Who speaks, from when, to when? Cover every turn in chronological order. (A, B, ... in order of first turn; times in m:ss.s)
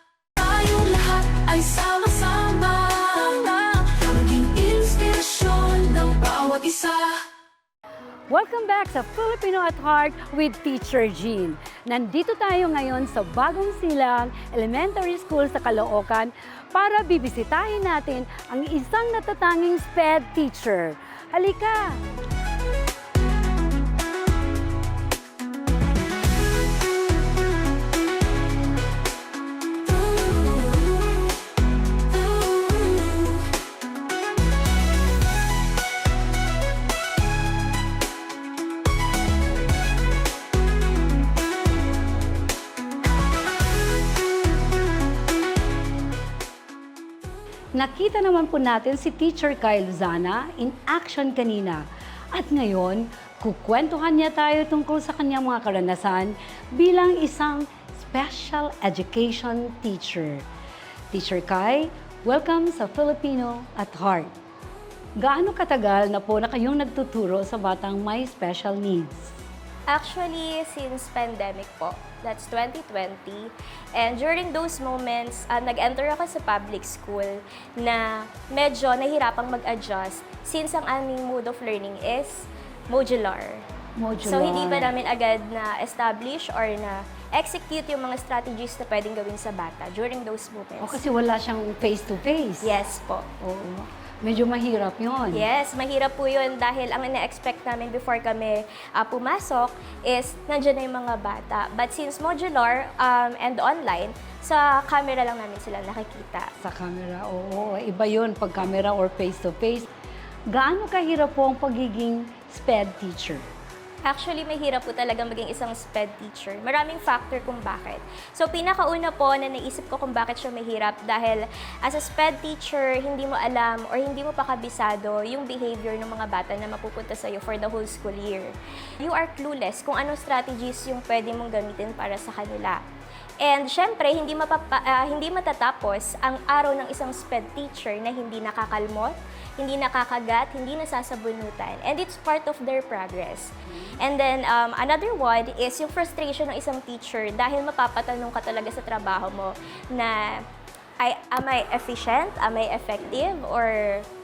0:00.4-0:07.2 A
0:08.3-0:22.0 B
0:47.8-1:00.4 B
1:01.1-1:04.4 B
1:05.2-1:09.3 B
1:09.9-1:23.6 C
1:24.0-1:24.9 B
1:24.2-1:31.0 C
1:30.8-1:32.7 B
1:32.6-1:33.3 C
1:33.4-1:35.4 B
1:35.3-1:46.5 C
1:46.6-1:49.9 B
1:50.5-1:53.5 B
1:54.0-2:12.8 C
2:13.4-2:30.2 C
2:31.0-2:34.1 C